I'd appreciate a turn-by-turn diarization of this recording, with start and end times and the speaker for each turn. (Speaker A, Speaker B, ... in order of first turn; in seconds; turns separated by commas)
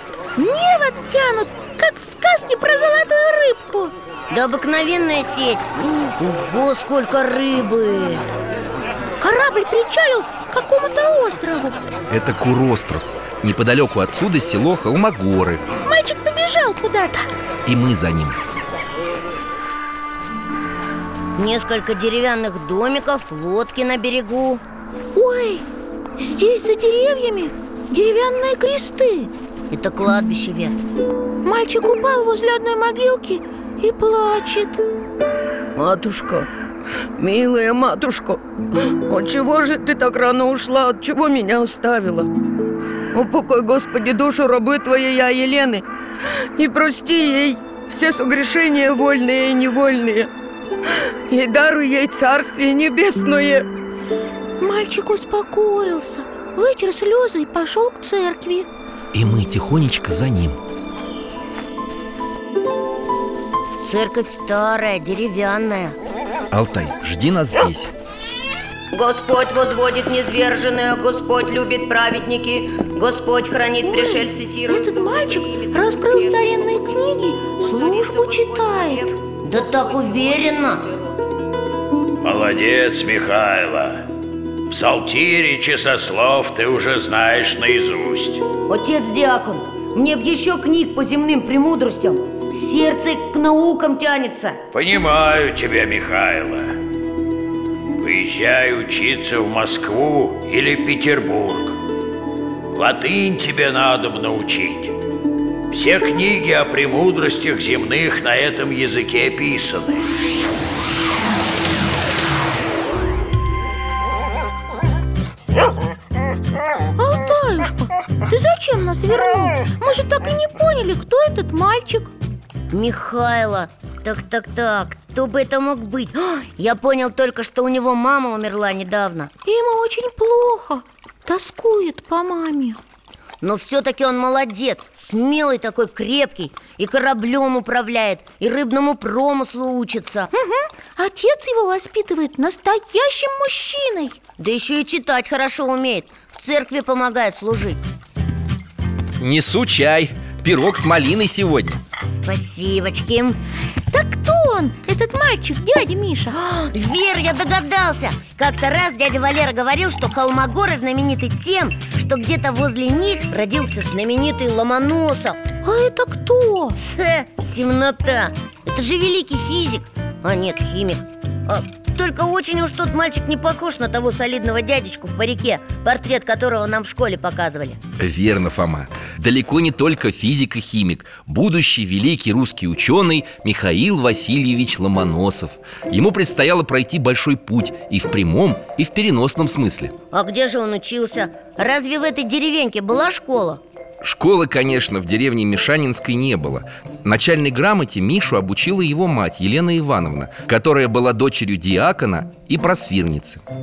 Speaker A: 0.4-3.9, Speaker B: 4.3-8.2, Speaker A: 9.2-11.8, Speaker C: 12.1-15.6, Speaker A: 15.8-17.2, Speaker C: 17.6-18.4, Speaker B: 21.4-24.6, Speaker A: 25.1-25.6, Speaker A: 26.2-29.3, Speaker B: 29.7-30.8, Speaker A: 31.4-34.8, Speaker D: 35.8-36.5, Speaker D: 37.2-42.3, Speaker D: 43.1-45.8, Speaker D: 46.5-50.3, Speaker D: 51.3-53.6, Speaker A: 54.6-58.7, Speaker C: 59.1-60.6, Speaker B: 63.8-66.0, Speaker C: 66.5-67.9, Speaker B: 68.9-76.7, Speaker A: 73.8-79.2, Speaker D: 77.9-78.3, Speaker B: 77.9-80.9, Speaker D: 79.5-81.0, Speaker E: 82.2-84.0, Speaker E: 84.7-88.4, Speaker B: 88.7-94.6, Speaker E: 94.7-96.8, Speaker E: 98.0-101.8, Speaker E: 102.7-104.9, Speaker E: 105.7-110.1, Speaker A: 117.0-122.1, Speaker B: 122.7-129.3, Speaker A: 129.4-132.8, Speaker B: 133.4-140.3, Speaker A: 140.3-144.2, Speaker B: 144.4-147.8, Speaker C: 149.2-151.8, Speaker B: 152.1-153.4, Speaker A: 153.9-156.4, Speaker B: 156.3-165.4, Speaker A: 165.6-166.8, Speaker B: 166.8-177.8, Speaker C: 178.0-189.9, Speaker B: 190.1-193.6, Speaker C: 194.0-203.4